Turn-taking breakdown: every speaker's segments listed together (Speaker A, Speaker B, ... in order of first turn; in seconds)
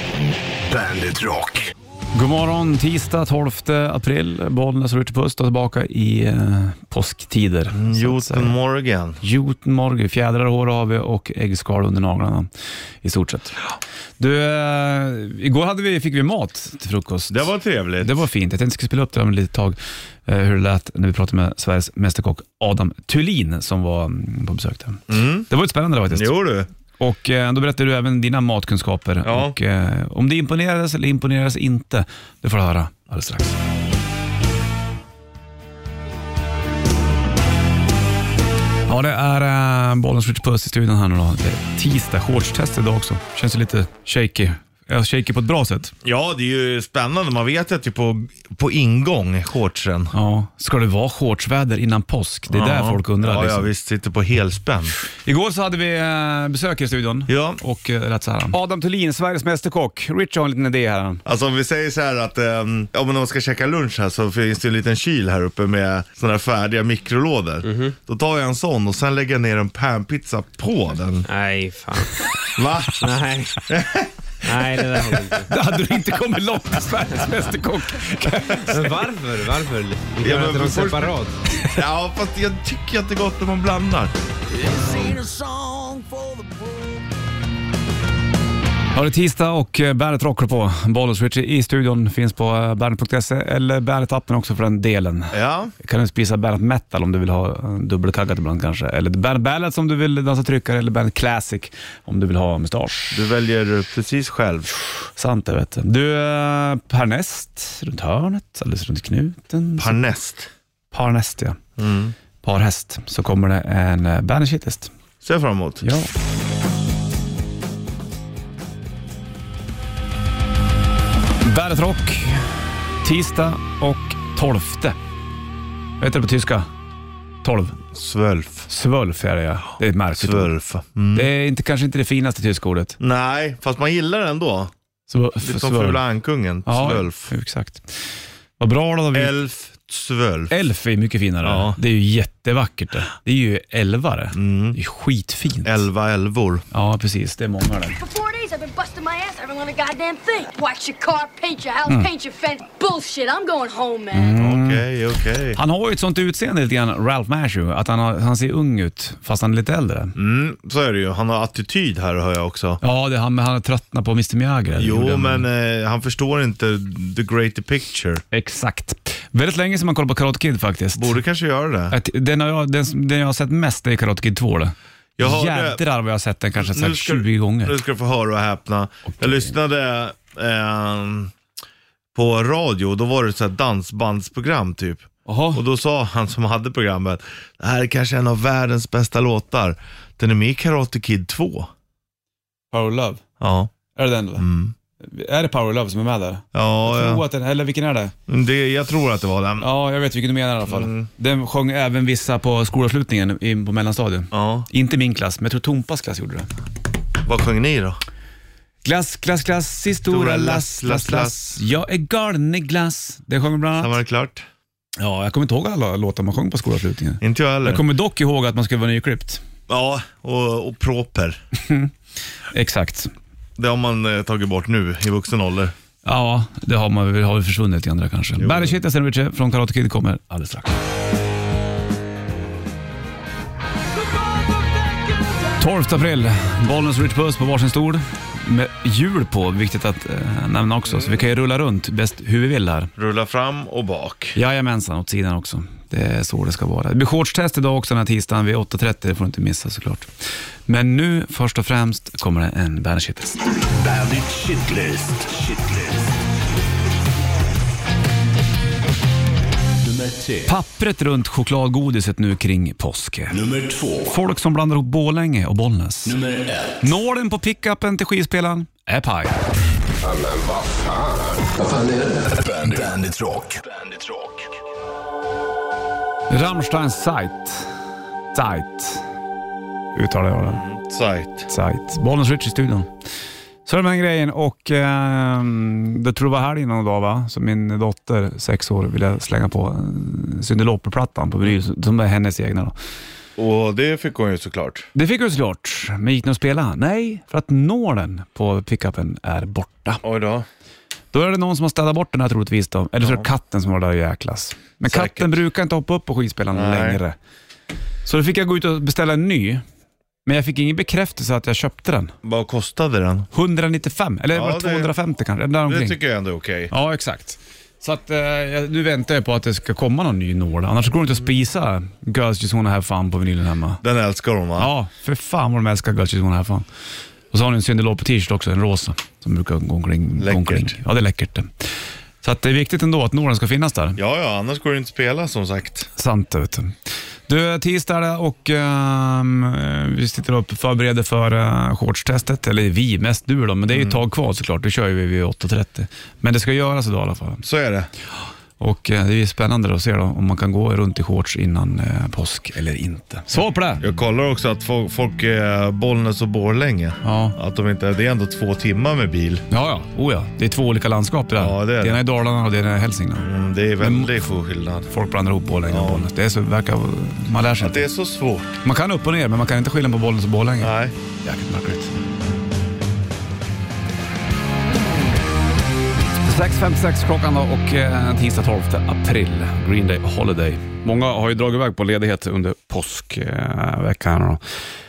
Speaker A: 0.7-1.7, 253.7-256.1, 259.8-260.6, 263.3-264.1, 266.1-266.8, 270.0-274.6
Speaker B: 2.1-8.5, 9.2-12.5, 13.0-13.6, 14.2-26.4, 27.0-33.6, 38.9-45.9, 50.1-53.7, 55.2-61.2, 75.4-79.1, 88.9-103.2, 105.2-110.0, 110.9-111.6, 112.4-114.9, 115.8-116.1, 121.4-125.0, 126.0-126.7, 127.4-127.8, 128.7-130.5, 131.1-133.0, 135.1-136.0, 136.7-139.3, 140.5-145.8, 146.7-148.0, 154.1-154.9, 155.5-160.2, 162.8-165.5, 168.3-171.2, 171.9-177.8, 179.1-179.5, 185.3-185.6, 192.7-193.2, 193.9-194.4, 195.0-198.1, 199.6-206.5, 208.8-214.0, 215.0-219.4, 221.6-221.9, 222.5-223.1, 226.0-230.8, 235.6-242.9, 244.3-250.1, 250.7-253.4, 260.4-263.4, 264.1-266.2, 266.8-269.4, 276.3-277.7, 278.3-279.1, 279.9-280.6, 281.5-282.9, 283.7-292.8, 294.9-300.0, 301.1-307.2, 308.1-309.6, 310.3-312.1, 313.3-316.0, 316.7-323.8, 324.6-326.7, 327.3-331.7, 332.2-334.0, 336.0-336.7, 337.3-347.4, 348.6-353.8, 357.0-357.4, 359.5-363.3, 363.8-364.1, 364.9-367.9, 368.6-371.9, 376.2-384.4
Speaker C: 7.7-9.2, 17.3-18.2, 25.1-25.5, 26.1-26.7, 29.2-29.6, 46.0-50.1, 52.5-54.9, 57.3-57.6, 61.2-71.3, 72.4-75.5, 80.2-84.2, 95.3-95.7, 103.1-104.7, 109.8-110.5, 111.8-112.2, 115.2-115.9, 127.9-128.7, 130.1-131.3, 133.0-134.7, 135.4-137.3, 139.1-140.5, 141.4-141.8, 144.3-144.8, 145.6-146.7, 154.4-155.6, 160.2-162.8, 164.8-168.2, 170.9-172.0, 175.2-175.8, 176.6-181.3, 182.1-191.7, 193.4-193.7, 194.4-194.7, 196.5-197.2, 198.3-199.7, 200.7-201.1, 204.3-204.7, 207.2-208.0, 210.0-211.6, 213.8-214.5, 217.2-217.8, 219.7-221.4, 223.6-225.7, 228.4-228.8, 240.9-241.2, 243.0-244.4, 280.4-281.5, 293.4-294.9, 300.0-300.5, 303.0-303.3, 304.8-305.4, 306.5-307.0, 312.2-313.3, 314.3-314.9, 315.7-316.7, 323.8-324.7, 330.2-330.8, 334.0-335.9, 343.7-344.0, 347.4-347.9, 353.8-359.5, 361.4-362.0, 363.2-364.9, 365.7-366.1, 367.6-368.6, 370.6-370.9
Speaker D: 67.7-68.0, 71.3-72.2, 73.0-73.6, 74.5-75.5, 78.7-81.4, 84.6-86.8
Speaker E: 148.0-154.3